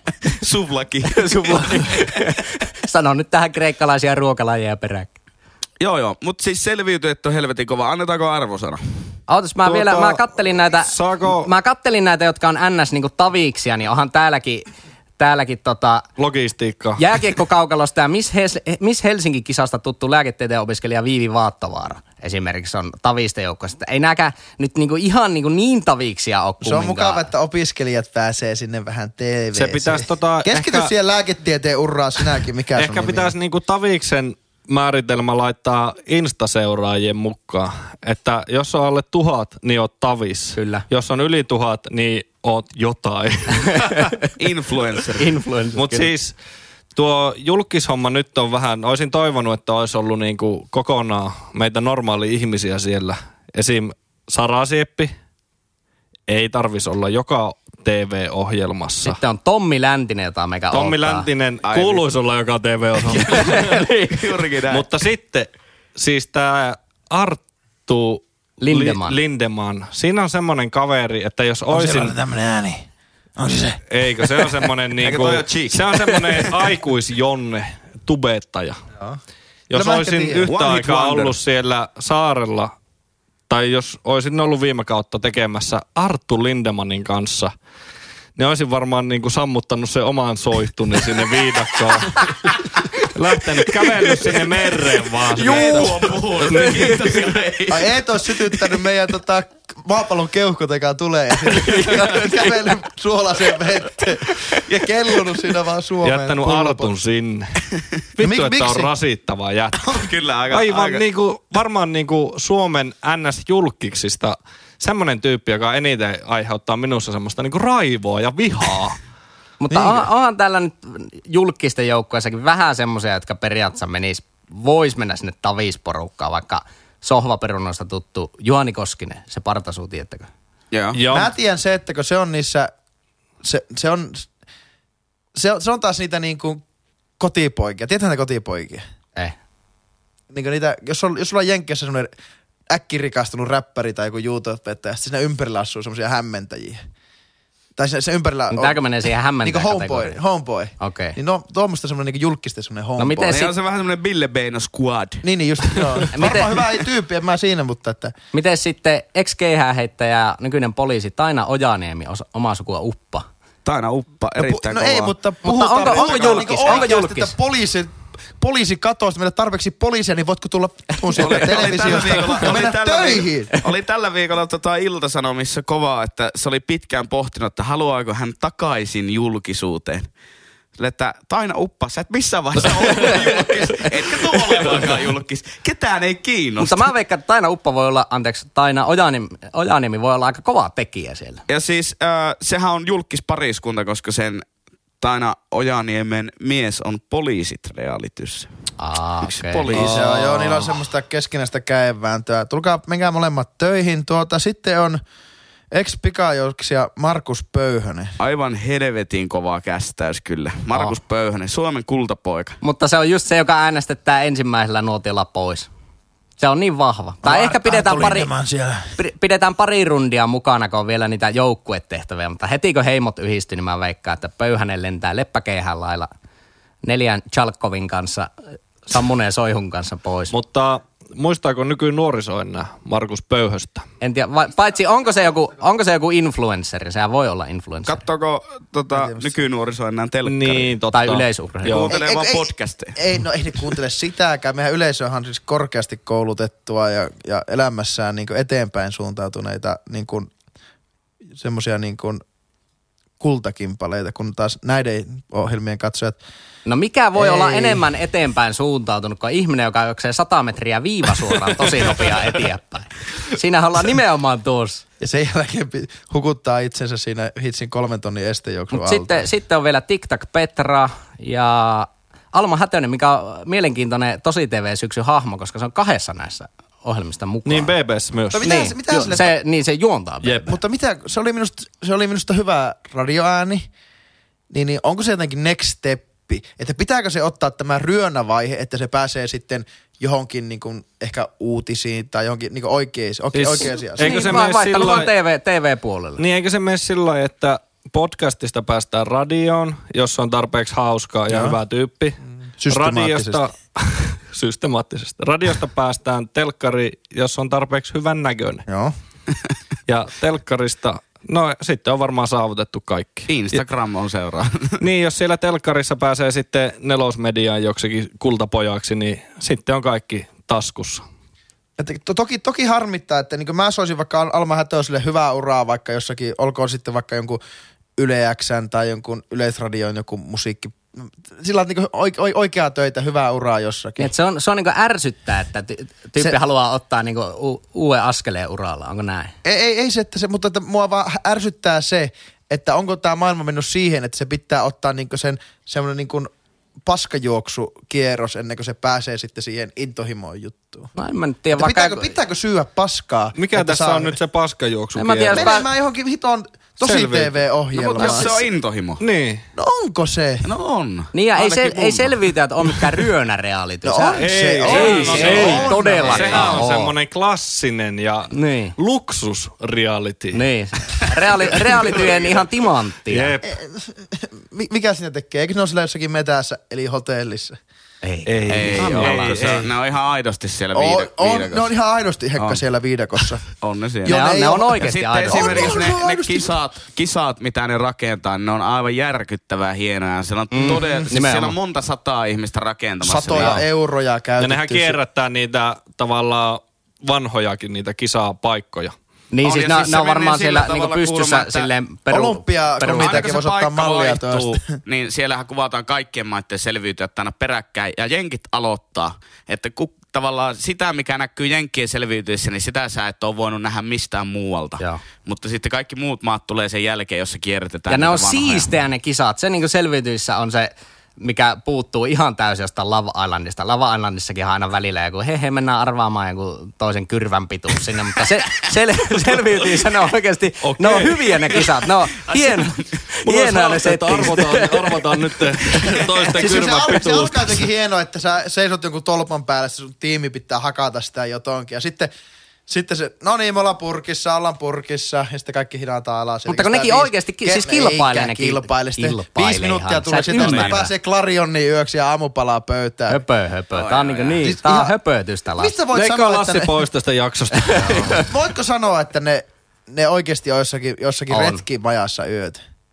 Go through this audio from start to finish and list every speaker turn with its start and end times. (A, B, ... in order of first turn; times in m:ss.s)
0:00.2-0:02.1 A
0:01.1-0:05.2 B
0:05.8-0:08.8 A
0:09.3-0:16.1 B
0:09.6-0:10.3 C
0:10.8-0:11.5 C
0:16.2-0:17.0 C
0:17.0-0:27.3 B
0:26.6-0:33.3 D
0:29.6-0:30.9 C
0:32.8-0:44.1 C
0:40.6-0:40.9 B
0:43.7-0:44.1 B
0:44.4-0:45.3 A
0:45.2-0:46.1 B
0:45.8-0:46.4 C
0:47.0-0:55.1 C
0:56.3-0:59.2 C
0:59.0-1:01.3 B
1:00.7-1:03.8 C
1:01.6-1:02.1 A
1:03.1-1:04.9 A
1:03.2-1:04.3 B
1:04.7-1:12.2 C
1:08.6-1:09.2 B
1:11.7-1:12.8 D
1:13.4-1:14.5 D
1:13.9-1:18.8 C
1:15.0-1:16.5 A
1:19.7-1:22.7 C
1:19.7-1:20.5 D
1:20.5-1:21.4 A
1:23.5-1:27.5 C
1:28.4-1:37.0 C
1:33.8-1:34.3 B
1:35.3-1:37.2 B
1:35.4-1:37.9 A
1:37.7-1:46.9 D
1:41.5-1:42.6 B
1:46.0-1:47.6 C
1:48.2-1:59.0 C
1:48.2-1:48.9 D
1:49.8-1:51.0 A
1:59.6-2:10.3 B
1:59.7-2:00.1 D
2:10.7-2:11.0 A
2:10.9-2:11.3 C
2:11.1-2:12.7 D
2:13.4-2:14.3 D
2:15.4-2:16.6 D
2:17.2-2:18.8 D
2:20.3-2:22.1 D
2:22.7-2:26.8 D
2:27.8-2:28.8 D
2:28.5-2:30.2 B
2:29.4-2:33.4 D
2:30.8-2:31.2 B
2:33.0-2:33.5 B
2:33.3-2:35.9 A
2:35.2-2:38.1 D
2:36.1-2:36.6 B
2:38.3-2:43.3 B
2:43.6-2:45.1 A
2:44.4-2:53.6 D
2:45.4-2:47.3 B
2:45.8-2:46.9 A
2:51.2-3:00.1 A
3:00.8-3:06.9 A
3:06.6-3:11.4 B
3:11.5-3:14.4 A
3:15.0-3:18.5 A
3:18.8-3:19.7 B
3:19.2-3:20.1 A
3:19.7-3:25.0 D
3:19.7-3:20.6 C
3:25.7-3:28.2 D
3:28.2-3:32.6 A
3:32.6-3:35.7 B
3:36.4-3:38.3 B
3:37.2-3:38.9 D
3:39.0-3:46.1 B
3:46.8-3:48.3 B
3:48.9-3:50.3 B
3:50.3-3:53.8 C
3:54.0-3:58.0 B
3:57.9-4:00.8 A
3:58.9-3:59.3 D
4:00.2-4:01.9 C
4:00.9-4:01.8 B
4:01.7-4:03.0 A
4:01.9-4:10.3 D
4:11.4-4:12.2 D
4:13.2-4:16.2 D
4:16.7-4:24.8 B
4:17.2-4:17.8 D
4:25.0-4:29.2 D
4:28.7-4:37.7 B
4:37.4-4:38.6 C
4:38.3-4:39.3 D
4:38.4-4:40.6 B
4:40.2-4:40.5 C
4:40.5-4:43.7 D
4:44.5-4:54.3 D
4:53.3-4:55.1 C
4:54.0-4:56.2 B
4:56.2-5:02.2 C
5:01.3-5:01.6 D
5:02.6-5:03.5 D
5:02.7-5:08.6 C
5:08.7-5:08.9 D
5:09.9-5:13.6 C
5:13.3-5:14.8 A
5:14.8-5:21.0 C
5:21.8-5:27.4 D
5:28.0-5:34.1 D
5:34.0-5:39.3 B
5:39.4-5:46.3 D
5:46.8-5:50.9 D
5:51.0-5:52.2 B
5:51.6-5:54.2 D
5:53.4-5:55.6 C
5:55.0-5:55.7 B
5:55.3-5:58.4 D
5:56.8-5:57.4 C
5:57.7-5:59.0 A
5:59.0-5:59.4 C
5:59.6-6:00.5 D
6:00.4-6:02.2 A
6:01.1-6:07.0 B
6:03.8-6:06.6 D
6:04.2-6:10.4 C
6:04.7-6:06.5 A
6:08.3-6:08.8 B
6:10.3-6:13.3 B
6:13.1-6:13.5 C
6:13.4-6:17.6 D
6:18.0-6:19.4 B
6:18.3-6:19.7 C
6:18.5-6:21.7 A
6:20.7-6:23.4 D
6:23.6-6:33.6 A
6:24.0-6:26.5 D
6:24.1-6:25.8 B
6:30.5-6:31.6 B
6:30.7-6:31.1 D
6:33.0-6:35.0 D
6:34.4-6:39.0 C
6:39.3-6:43.3 B
6:39.4-6:41.7 A
6:42.1-6:44.6 D
6:42.9-6:58.7 A
6:57.9-7:15.9 B
7:10.6-7:11.7 C
7:12.3-7:13.0 A
7:13.2-7:17.6 C
7:16.3-7:22.1 D
7:22.7-7:33.2 D
7:26.5-7:30.9 B
7:30.3-7:30.8 A
7:33.1-7:35.8 B
7:33.8-7:34.4 A
7:34.4-7:34.9 D
7:35.6-7:36.8 D
7:35.9-7:38.3 C
7:37.6-7:38.3 B
7:38.2-7:42.6 D
7:41.3-7:41.6 B